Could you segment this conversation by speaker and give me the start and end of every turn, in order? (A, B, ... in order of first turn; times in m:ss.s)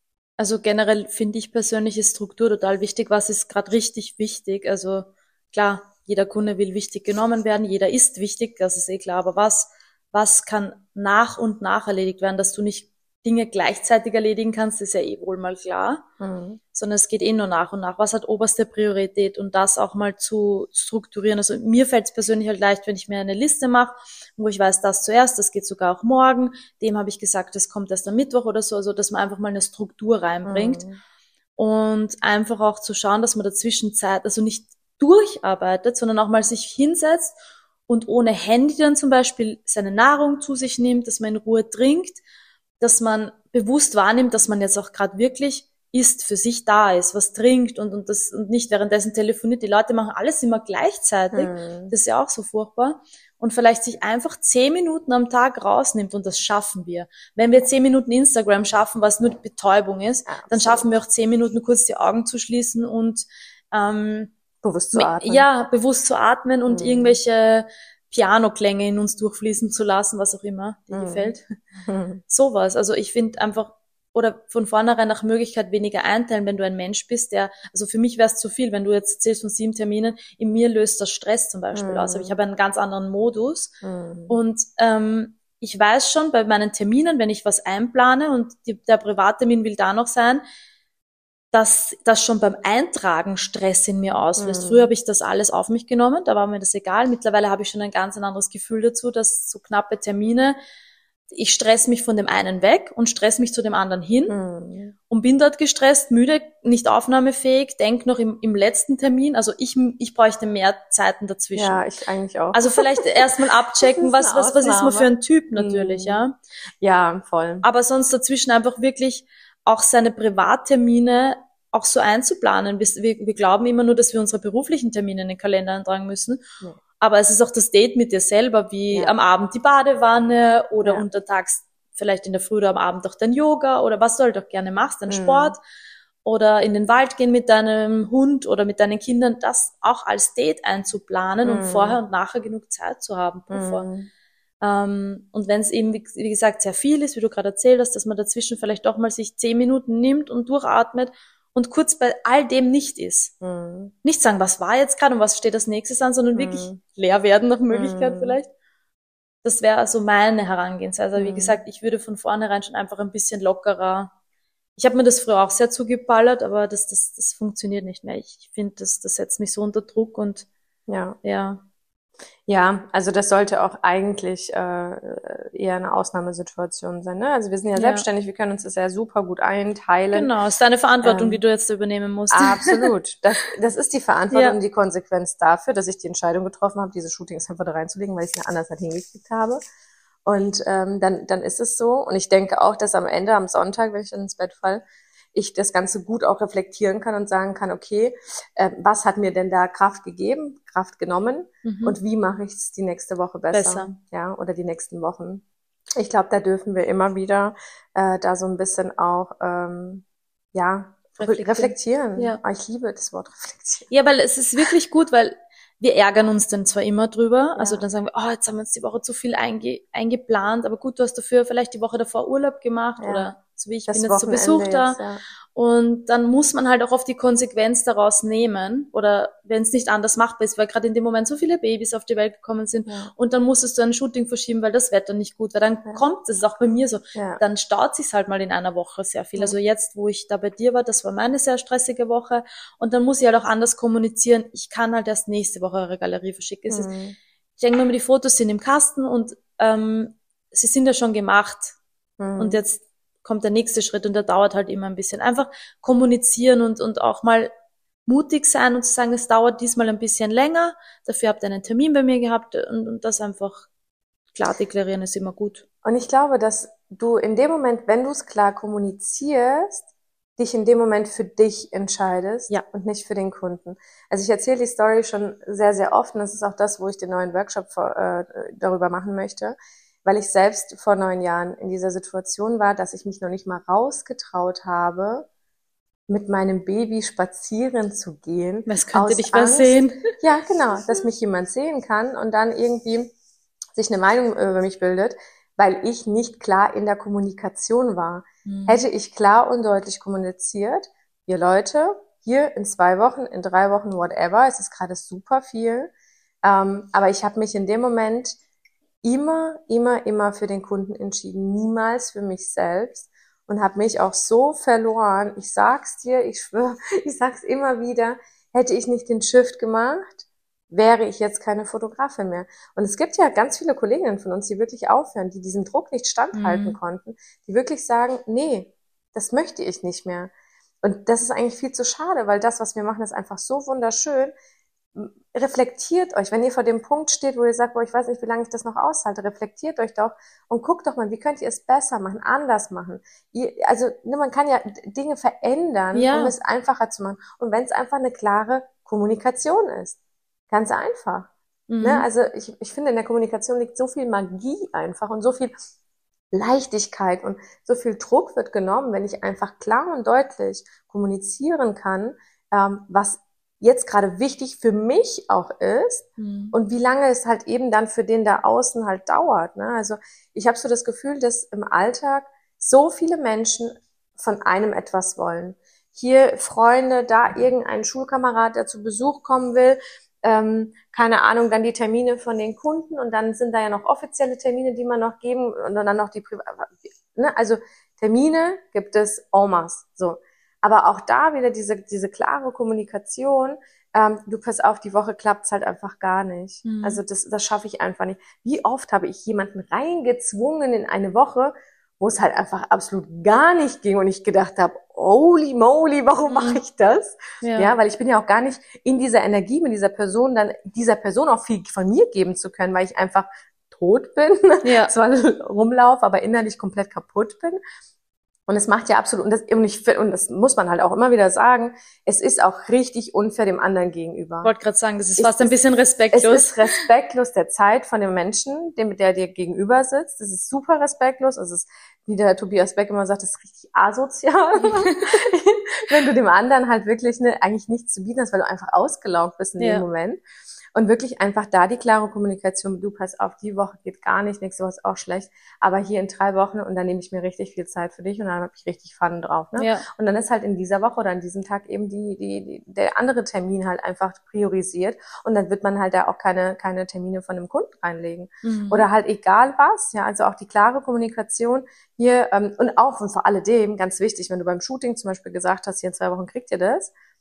0:00.4-0:16.0 A
0:16.2-0:16.6 B
0:16.7-0:30.8 A
0:30.4-0:31.0 B
0:31.6-0:37.4 A
0:37.9-0:42.2 A
0:42.8-1:04.3 A
0:51.3-0:51.9 B
1:00.3-1:00.9 B
1:04.6-1:05.4 B
1:04.9-1:11.5 A
1:06.7-1:07.2 B
1:10.9-1:11.3 B
1:11.8-1:12.2 B
1:12.3-1:23.7 A
1:21.7-1:22.3 B
1:23.8-1:24.4 B
1:24.3-1:30.4 A
1:31.5-1:40.6 A
1:34.4-1:34.9 B
1:41.3-1:44.3 A
1:44.3-1:44.9 B
1:45.1-1:51.8 A
1:51.5-1:53.2 B
1:52.5-1:56.4 A
1:53.8-1:56.2 B
1:56.8-1:57.6 B
1:57.6-2:06.4 A
2:07.0-2:15.6 A
2:15.1-2:15.6 B
2:16.2-2:23.8 A
2:21.4-2:22.0 B
2:23.5-2:24.1 B
2:24.6-2:33.3 A
2:33.4-2:33.9 B
2:34.0-2:38.5 A
2:36.3-2:36.8 B
2:37.7-2:38.4 B
2:39.4-2:44.1 A
2:41.1-2:41.6 B
2:44.8-2:50.5 A
2:50.9-2:51.2 B
2:51.2-2:51.6 A
2:52.5-3:00.3 B
2:57.8-2:58.0 A
3:00.1-3:02.8 A
3:01.0-3:01.4 B
3:02.3-3:09.6 B
3:04.3-3:04.6 A
3:10.2-3:14.8 B
3:15.3-3:25.4 B
3:21.6-3:22.0 A
3:23.5-3:23.9 A
3:26.0-3:33.9 B
3:31.2-3:32.4 A
3:33.9-3:45.0 A
3:37.6-3:37.8 B
3:43.0-3:43.3 B
3:43.9-3:45.2 B
3:45.5-4:06.9 A
3:52.9-3:53.1 B
3:57.1-3:57.4 B
4:06.7-4:07.2 B
4:07.6-4:11.8 A
4:12.2-4:12.6 B
4:12.4-4:17.5 A
4:18.0-4:23.7 A
4:24.3-4:25.6 A
4:25.8-4:45.3 B
4:46.1-4:53.1 B
4:48.7-4:50.0 A
4:53.7-5:05.9 B
4:58.4-4:58.8 A
5:06.4-5:08.4 B
5:09.0-5:30.3 B
5:26.3-5:26.8 A
5:30.8-5:34.3 B
5:34.9-5:50.0 B
5:45.9-5:46.3 A
5:50.5-5:51.3 B
5:51.7-5:52.0 A
5:51.8-5:55.5 B
5:56.3-6:57.6 B
6:06.2-6:06.5 A
6:36.6-6:37.0 A
6:46.3-6:46.6 A
6:47.4-6:47.7 A
6:54.6-6:54.9 A
6:58.5-7:04.5 B
7:04.4-7:06.8 A
7:05.2-7:05.6 B
7:06.1-7:20.2 B
7:19.6-7:19.8 A
7:20.7-7:46.9 B
7:29.6-7:29.8 A
7:38.4-7:38.8 A